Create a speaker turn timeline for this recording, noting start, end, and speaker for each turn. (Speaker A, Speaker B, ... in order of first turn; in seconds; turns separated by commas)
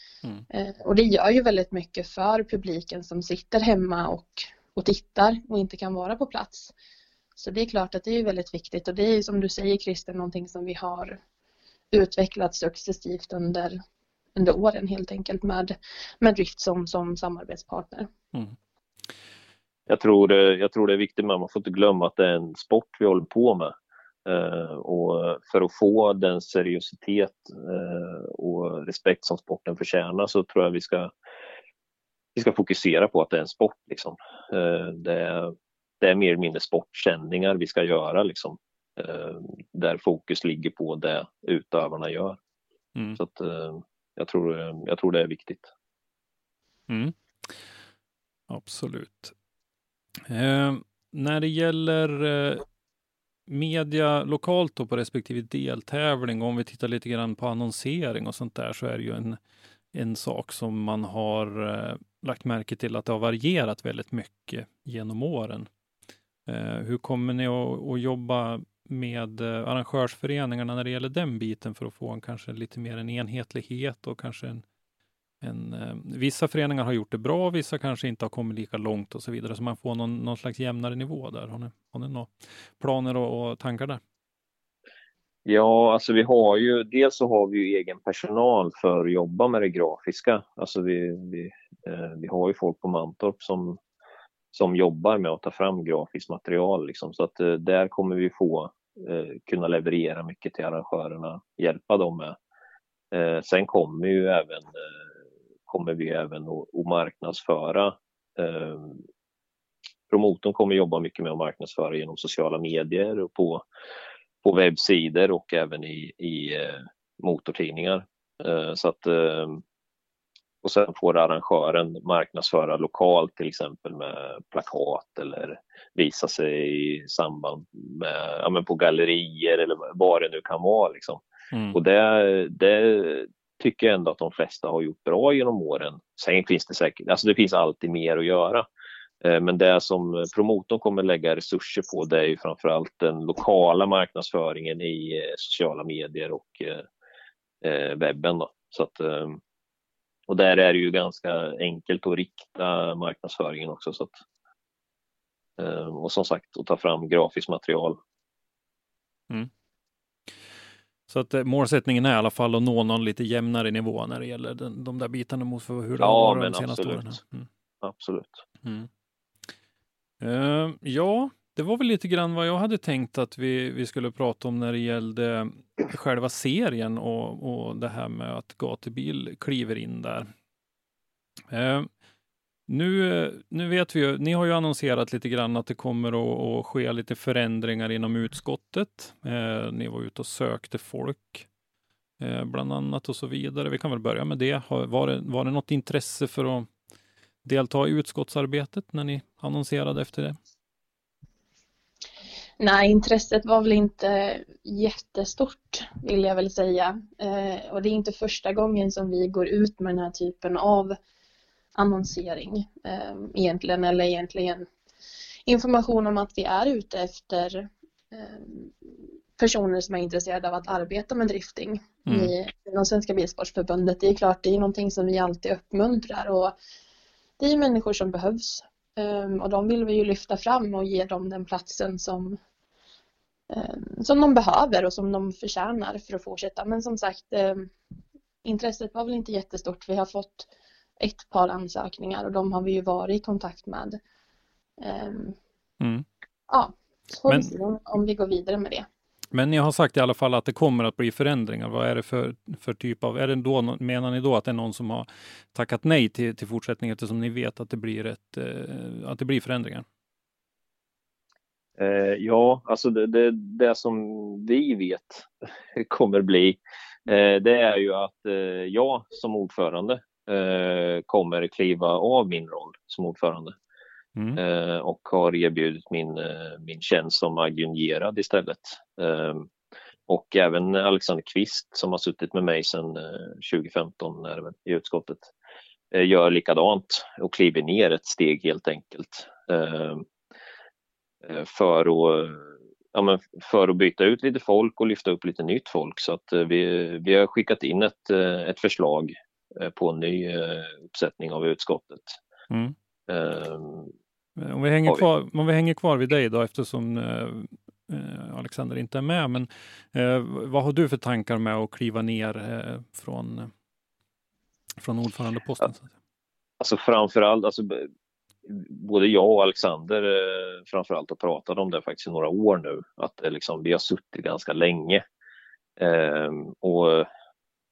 Speaker A: 0.5-6.7, Speaker A: 7.4-11.2, Speaker A: 11.9-13.8, Speaker A: 14.4-18.1, Speaker B: 19.9-23.7, Speaker B: 24.3-31.1, Speaker B: 32.4-42.4, Speaker B: 43.2-45.7, Speaker C: 46.9-47.6, Speaker C: 48.5-49.3, Speaker C: 50.3-52.7, Speaker C: 53.5-59.4, Speaker C: 59.9-65.7, Speaker C: 66.5-74.6, Speaker C: 75.4-84.0, Speaker B: 85.5-93.8, Speaker B: 94.5-102.4, Speaker B: 103.1-104.7, Speaker B: 105.7-109.0, Speaker B: 110.1-113.6, Speaker B: 114.4-119.6, Speaker B: 120.6-131.2, Speaker C: 131.5-131.8, Speaker B: 131.7-138.7, Speaker B: 139.2-146.8, Speaker B: 147.6-149.4, Speaker B: 150.3-154.2, Speaker B: 155.6-158.0, Speaker C: 161.1-167.5, Speaker B: 166.0-167.2, Speaker B: 167.8-168.4, Speaker C: 168.6-168.9, Speaker C: 170.2-180.3, Speaker C: 181.5-181.9, Speaker C: 182.7-191.5, Speaker C: 192.2-196.7, Speaker C: 197.4-200.4, Speaker A: 202.6-211.0, Speaker A: 211.8-214.7, Speaker A: 215.5-218.7, Speaker A: 219.4-226.6, Speaker C: 222.1-222.3, Speaker A: 227.4-232.4, Speaker A: 233.5-237.7, Speaker A: 238.4-244.0, Speaker A: 244.8-245.4, Speaker C: 245.8-246.1, Speaker A: 246.5-248.9, Speaker C: 247.3-247.5, Speaker C: 249.3-259.9, Speaker B: 261.8-273.6, Speaker B: 274.4-279.5, Speaker B: 280.1-285.3, Speaker B: 285.9-290.1, Speaker B: 291.2-302.2, Speaker B: 303.1-303.9, Speaker C: 304.4-313.5, Speaker C: 314.8-315.9, Speaker B: 316.6-317.9, Speaker B: 318.5-325.0, Speaker B: 325.8-327.1